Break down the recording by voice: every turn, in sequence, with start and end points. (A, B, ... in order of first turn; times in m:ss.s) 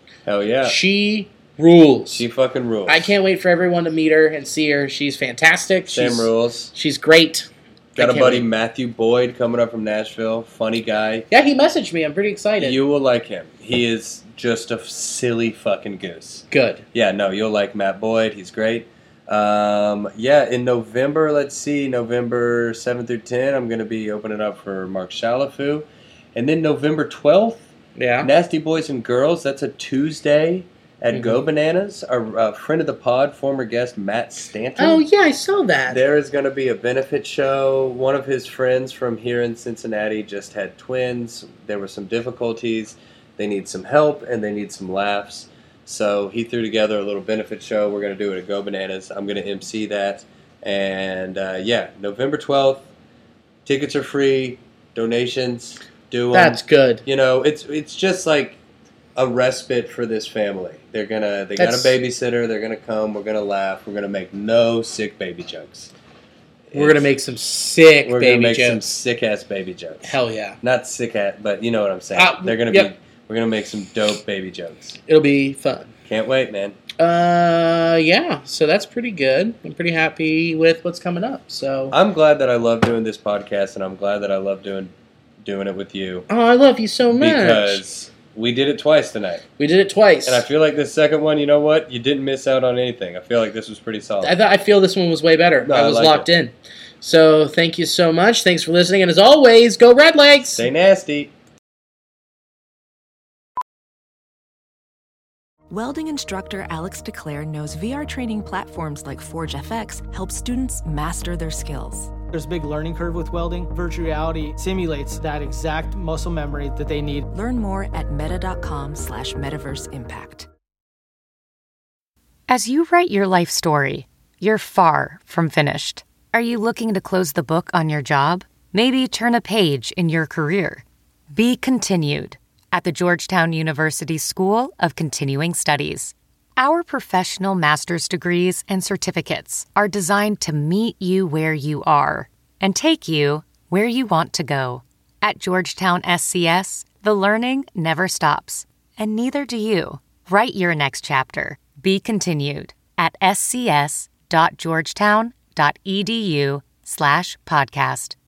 0:00.2-0:00.8 A
0:00.6-0:02.2 B
0:02.1-0:03.1 A
0:02.9-0:08.4 B
0:05.9-0:06.7 A
0:08.0-0:11.3 A
0:11.3-0:12.8 B
0:12.6-0:27.7 A
0:16.5-0:16.8 B
0:28.0-0:28.3 B
0:28.2-0:35.0 A
0:31.1-0:31.4 B
0:34.8-0:36.0 B
0:35.9-0:52.9 A
0:53.6-0:58.6 A
0:56.3-0:57.0 B
0:59.2-1:05.9 A
1:01.6-1:01.9 B
1:06.7-1:07.1 A
1:06.7-1:08.8 B
1:08.0-1:15.0 A
1:10.0-1:10.6 B
1:12.2-1:12.9 B
1:15.1-1:15.9 B
1:16.0-1:16.8 A
1:17.0-1:21.9 B
1:21.9-1:26.3 A
1:26.3-1:27.8 B
1:27.1-1:29.4 A
1:29.6-1:30.5 B
1:30.2-1:34.3 A
1:34.2-1:40.7 B
1:35.6-1:36.3 A
1:40.5-1:41.3 A
1:45.7-1:52.1 C
1:52.3-1:57.3 D
1:57.3-2:00.5 C
2:02.5-2:38.2 E